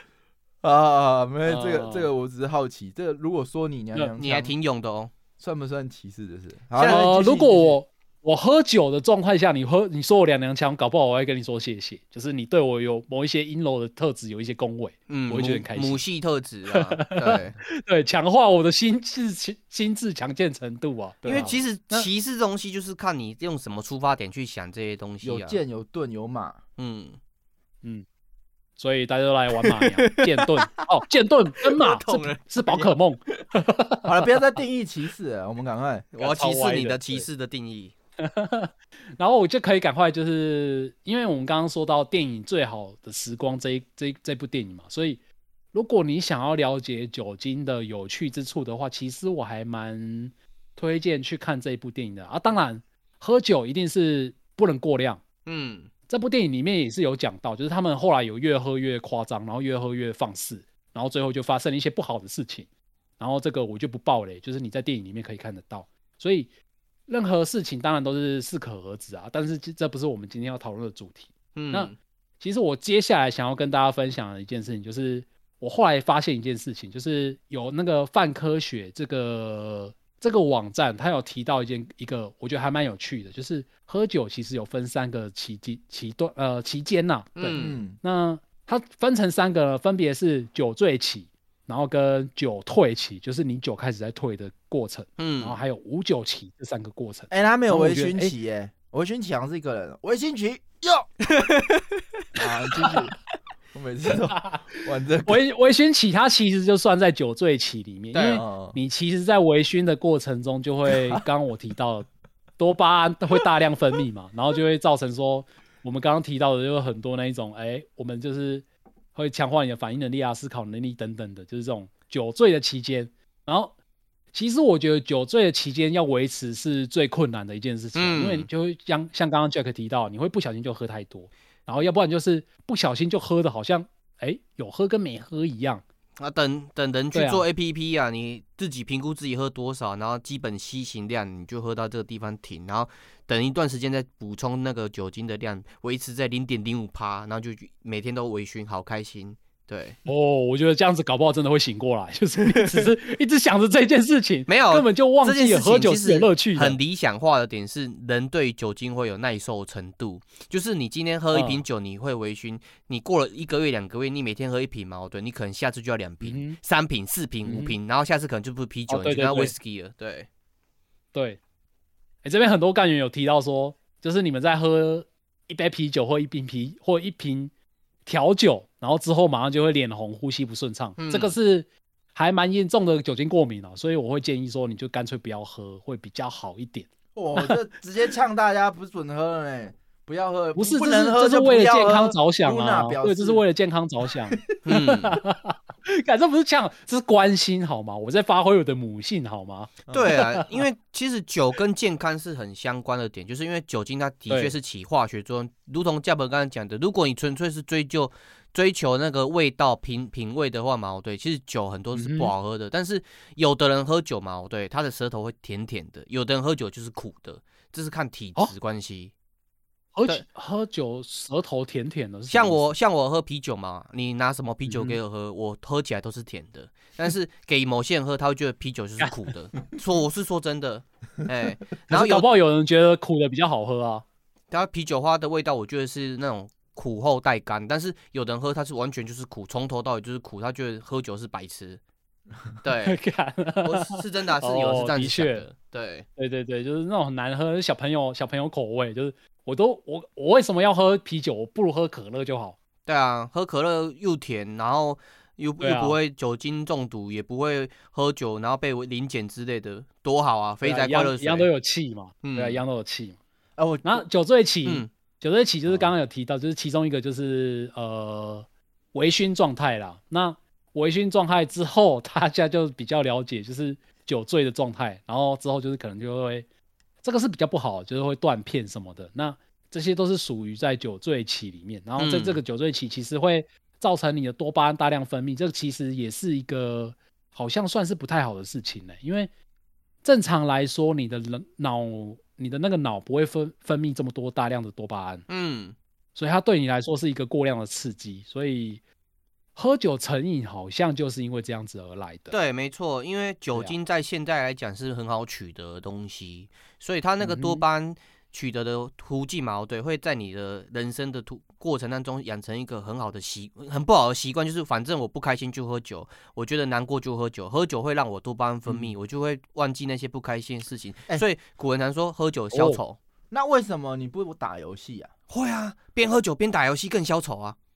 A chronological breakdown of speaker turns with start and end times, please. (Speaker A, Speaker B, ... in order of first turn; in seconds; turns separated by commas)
Speaker A: 0.6-4.5, Speaker B: 1.4-2.1, Speaker C: 4.2-5.1, Speaker A: 5.4-7.8, Speaker C: 6.8-7.0, Speaker B: 6.8-16.0, Speaker C: 15.1-17.6, Speaker B: 16.7-22.1, Speaker C: 21.2-25.6, Speaker A: 25.2-26.6, Speaker C: 26.8-27.2, Speaker B: 28.8-34.0, Speaker C: 29.7-30.9, Speaker C: 31.8-33.4, Speaker A: 34.0-36.0, Speaker C: 36.1-37.9, Speaker B: 36.2-37.2, Speaker B: 38.2-45.2, Speaker B: 45.7-55.2, Speaker C: 55.5-55.9, Speaker B: 56.1-62.7, Speaker B: 63.2-66.5, Speaker B: 67.1-98.3, Speaker C: 71.5-71.9, Speaker C: 87.4-87.8, Speaker A: 87.5-88.0, Speaker C: 95.2-95.6, Speaker A: 97.3-101.1, Speaker C: 101.3-101.8, Speaker A: 102.3-103.2, Speaker A: 103.7-105.4, Speaker B: 104.3-112.1, Speaker C: 108.1-108.4, Speaker A: 108.3-108.8, Speaker B: 112.6-123.7, Speaker B: 124.3-135.8, Speaker C: 127.9-128.5, Speaker C: 136.2-150.0, Speaker B: 137.1-137.4, Speaker B: 150.1-156.8, Speaker C: 152.5-152.9, Speaker C: 154.5-170.3, Speaker B: 161.3-161.6, Speaker B: 166.2-166.6, Speaker B: 167.4-167.8, Speaker B: 168.9-169.5, Speaker B: 171.1-171.4, Speaker B: 172.2-177.5, Speaker B: 178.1-187.5, Speaker C: 181.0-181.3, Speaker A: 187.1-193.4, Speaker B: 190.6-200.4, Speaker C: 194.6-195.2, Speaker C: 199.9-219.1, Speaker B: 204.3-204.5, Speaker B: 211.9-212.3, Speaker B: 219.9-222.6, Speaker C: 222.3-232.3, Speaker B: 224.7-225.0, Speaker B: 231.9-234.0, Speaker C: 234.5-241.8, Speaker C: 242.6-243.0, Speaker B: 242.8-245.4, Speaker C: 243.6-246.1, Speaker B: 246.2-252.6, Speaker C: 252.8-261.5, Speaker B: 255.6-256.0, Speaker B: 260.6-263.2, Speaker C: 262.2-262.6, Speaker A: 263.6-264.0, Speaker B: 263.8-276.5, Speaker C: 264.6-264.9, Speaker B: 277.0-289.3, Speaker C: 282.0-282.4, Speaker B: 290.0-295.2, Speaker C: 295.3-295.7, Speaker B: 296.1-298.8, Speaker B: 299.5-302.3, Speaker C: 302.3-323.0, Speaker B: 307.2-307.6, Speaker B: 322.5-322.8, Speaker A: 323.3-325.1, Speaker C: 325.3-327.6